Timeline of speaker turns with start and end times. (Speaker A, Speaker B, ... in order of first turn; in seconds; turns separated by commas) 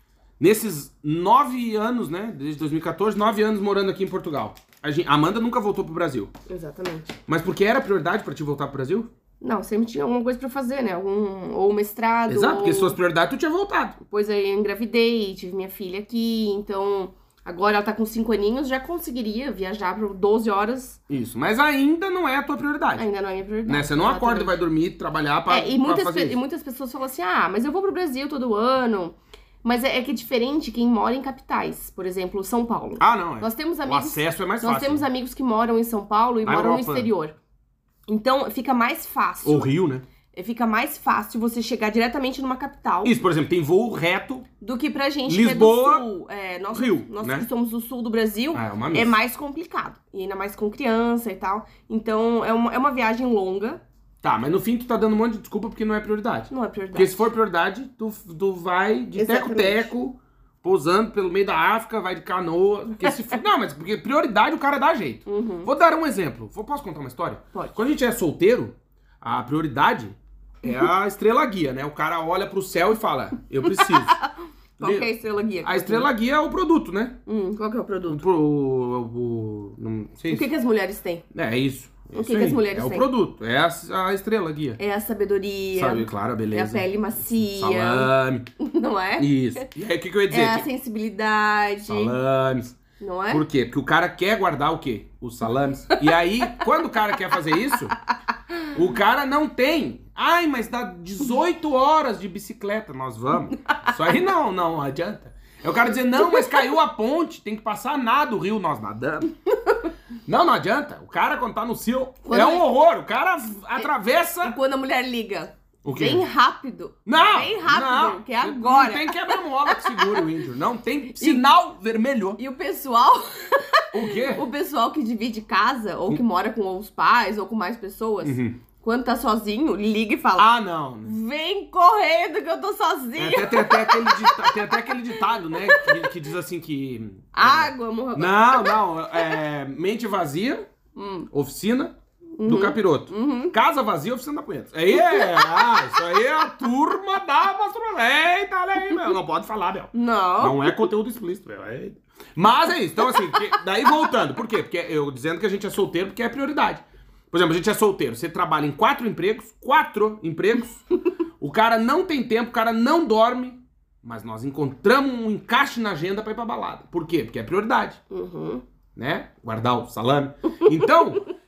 Speaker A: 0.4-6.3, Speaker B: 6.5-7.1, Speaker A: 7.3-9.1, Speaker B: 9.4-12.9, Speaker A: 12.3-14.0, Speaker B: 14.1-21.0, Speaker A: 21.1-23.0, Speaker B: 23.0-24.6, Speaker A: 23.6-26.4, Speaker B: 25.5-37.3, Speaker A: 33.0-35.0, Speaker A: 36.4-37.1, Speaker B: 38.1-39.7, Speaker A: 39.4-40.0, Speaker B: 40.3-43.1, Speaker A: 43.0-44.5, Speaker B: 44.6-53.8, Speaker A: 45.3-46.0, Speaker A: 46.7-47.5, Speaker A: 48.5-49.1, Speaker A: 54.2-74.2, Speaker B: 56.5-57.2, Speaker B: 59.1-59.9, Speaker B: 65.2-65.7, Speaker B: 73.7-76.1, Speaker A: 74.8-75.1, Speaker A: 75.6-77.2, Speaker B: 77.2-78.2, Speaker A: 78.1-80.5, Speaker B: 80.3-81.2, Speaker A: 81.3-84.8, Speaker B: 82.1-83.1, Speaker B: 84.8-89.7, Speaker A: 85.7-88.5, Speaker A: 89.2-90.7, Speaker B: 90.3-92.2, Speaker A: 91.9-92.8, Speaker B: 93.0-93.4, Speaker A: 93.3-98.0, Speaker A: 98.7-109.3, Speaker B: 106.3-106.6, Speaker A: 110.3-114.6, Speaker B: 112.2-112.7, Speaker B: 114.4-120.3, Speaker A: 115.8-116.2, Speaker A: 117.0-122.4, Speaker B: 121.2-121.4, Speaker B: 122.4-130.5, Speaker A: 123.9-124.4, Speaker A: 128.2-128.6, Speaker A: 130.3-131.1, Speaker B: 131.0-136.0, Speaker A: 133.2-140.7, Speaker B: 137.3-139.4, Speaker B: 140.9-141.3, Speaker A: 141.3-160.8, Speaker B: 142.4-143.6, Speaker B: 144.9-145.8, Speaker B: 149.9-150.9, Speaker B: 153.0-153.5, Speaker A: 161.4-168.0, Speaker B: 168.1-168.6, Speaker A: 168.9-171.2